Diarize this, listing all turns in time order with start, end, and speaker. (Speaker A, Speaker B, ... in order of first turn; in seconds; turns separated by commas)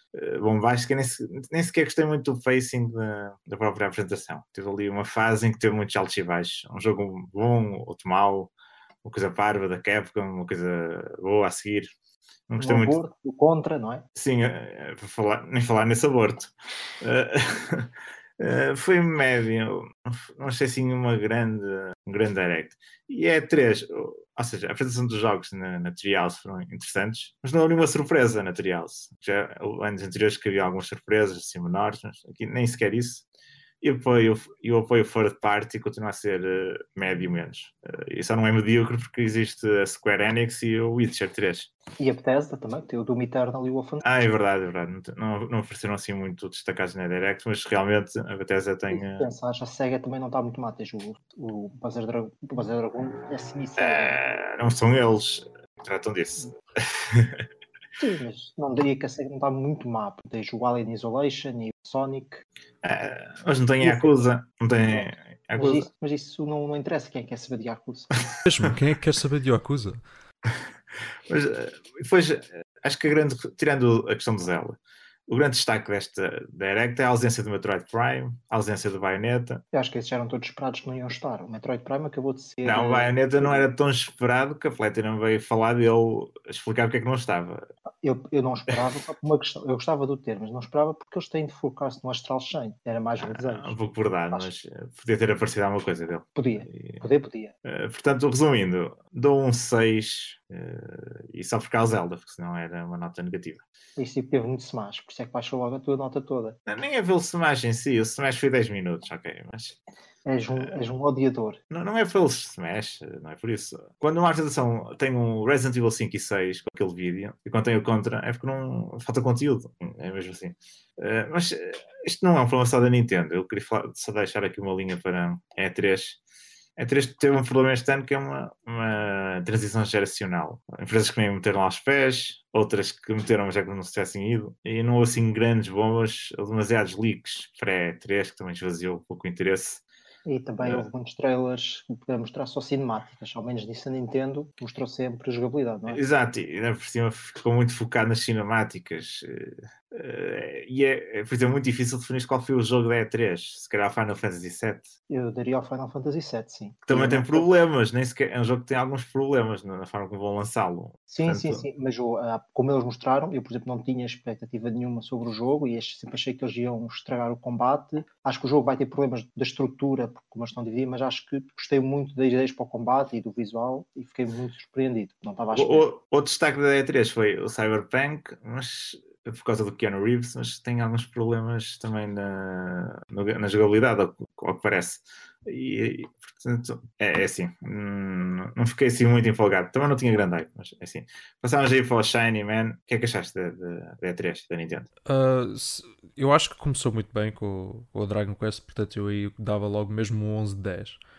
Speaker A: 0.1-8.5, Speaker A: 9.0-11.9, Speaker A: 12.5-13.0, Speaker B: 12.6-14.0, Speaker A: 14.2-33.2, Speaker A: 33.8-41.7, Speaker B: 42.0-44.0, Speaker A: 44.0-49.3, Speaker B: 48.9-54.2, Speaker A: 53.8-57.4, Speaker B: 58.0-62.4, Speaker A: 62.8-65.9, Speaker B: 63.8-64.3, Speaker B: 64.9-68.1, Speaker C: 68.5-70.0, Speaker A: 71.3-74.8, Speaker A: 75.3-79.6, Speaker B: 79.7-83.7, Speaker A: 82.7-87.7, Speaker B: 88.0-93.8, Speaker A: 93.2-97.0, Speaker B: 96.4-97.5, Speaker A: 97.7-103.6, Speaker B: 104.0-106.6, Speaker A: 106.7-109.8, Speaker B: 110.3-111.6, Speaker A: 111.7-126.2, Speaker A: 126.8-139.8, Speaker B: 140.3-146.0, Speaker A: 145.9-154.9, Speaker B: 155.1-157.5, Speaker A: 156.9-161.6, Speaker B: 161.1-175.9, Speaker A: 175.5-194.9, Speaker C: 195.1-201.0